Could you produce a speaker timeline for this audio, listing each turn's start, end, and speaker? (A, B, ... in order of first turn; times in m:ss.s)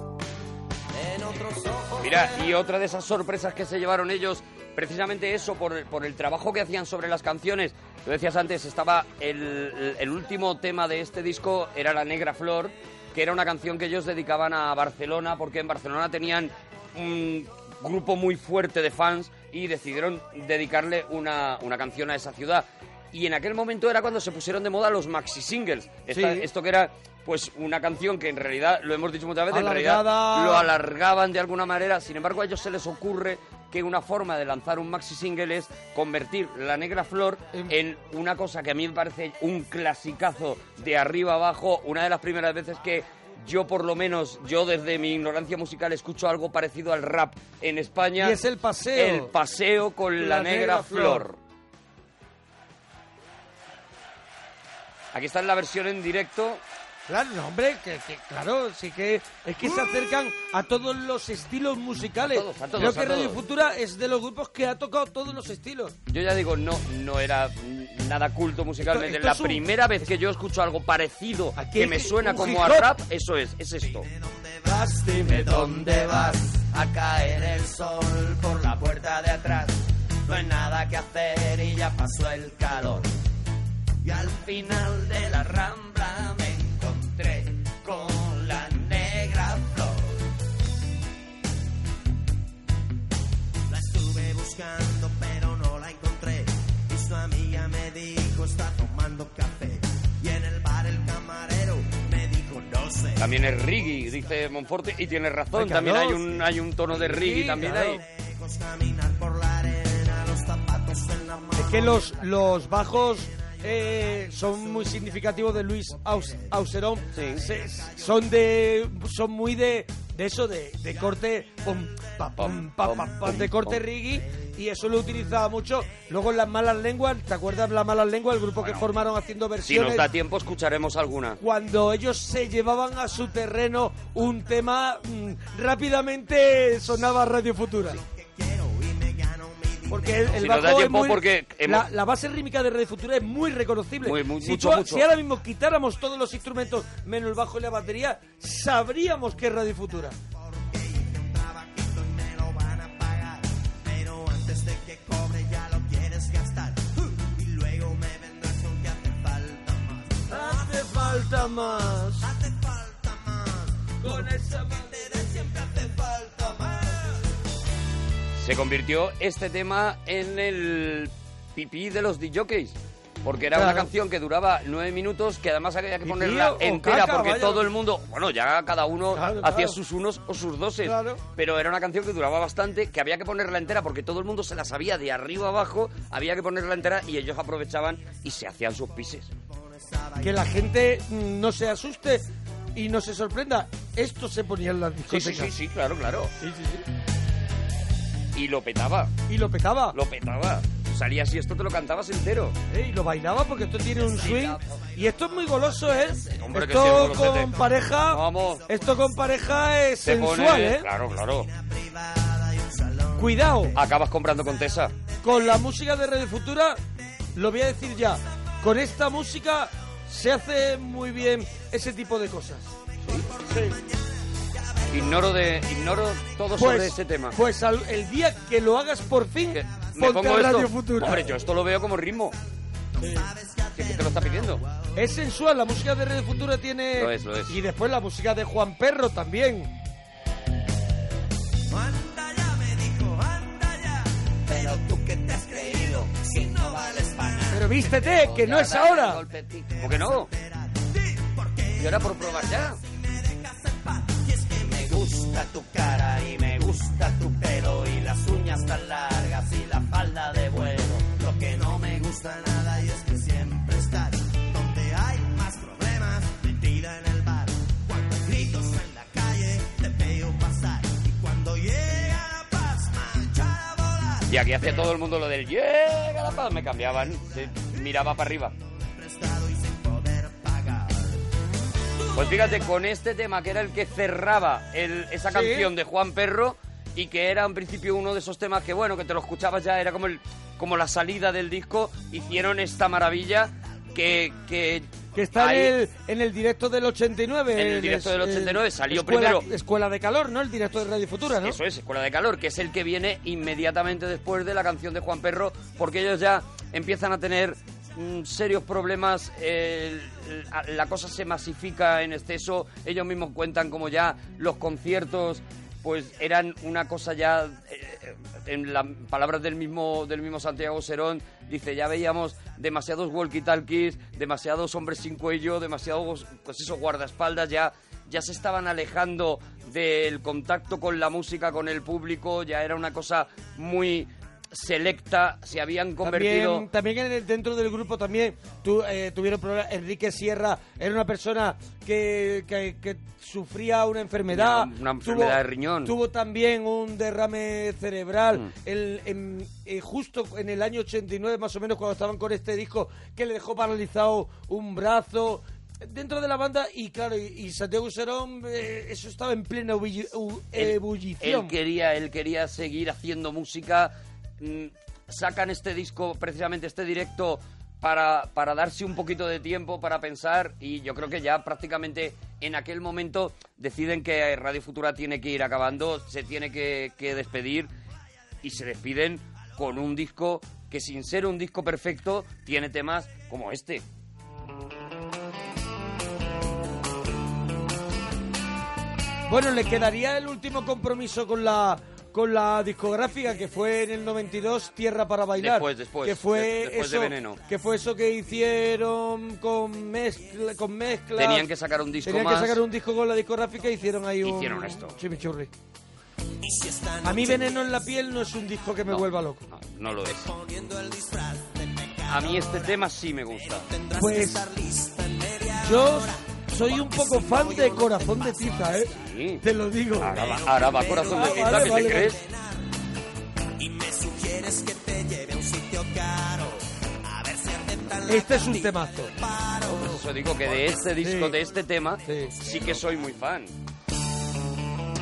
0:00.9-0:02.5 A
0:02.0-0:48.4 B
0:26.1-0:26.5 C
0:29.5-0:30.7 C
0:48.2-0:49.3 C
0:48.9-0:51.4 B
0:50.2-0:51.3 C
0:55.1-0:56.6 B
0:57.1-1:05.9 C
1:02.3-1:03.4 B
1:06.1-1:14.1 B
1:08.8-1:09.6 C
1:11.6-1:12.9 C
1:13.8-1:23.1 A
1:14.7-1:15.1 C
1:15.2-1:16.4 B
1:24.0-1:30.1 A
1:24.6-1:26.1 B
1:33.7-1:43.3 A
1:43.2-1:48.0 B
1:45.5-1:46.4 C
1:46.9-1:48.0 C
1:48.0-1:52.3 A
1:51.6-2:10.1 C
1:53.0-1:55.0 A
1:56.2-1:56.5 A
1:57.1-1:57.4 B
1:57.4-1:58.0 A
2:02.4-2:03.8 B
2:08.6-2:08.9 B
2:09.6-2:11.4 B
2:11.4-2:18.0 C
2:17.9-2:20.5 A
2:19.9-2:30.2 C
2:20.3-2:21.8 B
2:24.0-2:25.1 B
2:30.3-2:41.6 A
2:40.3-2:42.2 C
2:42.2-2:47.2 A
2:44.0-2:45.2 C
2:48.4-3:09.3 B
2:53.5-2:53.9 C
2:56.0-2:57.7 C
2:59.1-2:59.8 C
3:00.8-3:01.2 C
3:09.5-3:10.6 A
3:10.2-3:15.5 C
3:15.1-3:16.3 B
3:16.4-3:16.8 C
3:18.4-3:19.1 B
3:19.3-3:20.0 C
3:19.9-3:22.6 B
3:22.7-3:30.9 C
3:24.0-3:24.8 B
3:25.0-3:29.5 A
3:26.3-3:28.6 B
3:30.0-3:31.5 B
3:31.3-3:33.4 A
3:33.2-3:33.8 C
3:33.7-3:34.9 B
3:35.2-3:36.8 C
3:37.4-3:42.7 C
3:43.1-3:45.5 A
3:44.9-3:47.4 B
3:46.6-3:51.3 C
3:49.5-3:52.4 B
3:53.0-3:54.9 A
3:53.8-3:54.6 B
3:55.0-3:59.7 C
3:56.9-3:57.6 B
4:01.7-4:07.9 A
4:07.5-4:09.2 C
4:07.7-4:10.3 B
4:09.7-4:34.9 A
4:11.8-4:12.8 B
4:34.3-4:38.6 B
4:38.8-4:41.2 A
4:42.1-4:55.7 B
4:45.3-4:45.7 C
4:55.1-5:01.6 C
4:57.5-4:59.4 B
5:01.4-5:36.7 B
5:36.0-6:01.5 C
5:44.3-5:45.9 B
6:00.5-6:17.7 B
6:18.4-6:23.8 B
6:29.3-6:41.5 C
6:35.4-6:37.4 B
6:41.1-6:42.6 B
6:42.0-6:45.5 C
6:44.2-6:45.0 B
6:46.4-6:47.9 A
6:47.0-6:49.4 C
6:48.9-6:50.3 B
6:50.1-6:59.0 A
6:52.1-6:53.7 B
6:54.0-6:54.4 C
6:55.6-7:00.2 C
6:58.9-6:59.4 B
7:00.0-7:02.2 B
7:00.0-7:02.7 A
7:00.8-7:02.2 C
7:03.6-7:10.9 A
7:08.1-7:09.1 C
7:09.6-7:13.6 B
7:11.0-7:11.4 C
7:12.0-7:12.3 C
7:12.2-7:13.0 A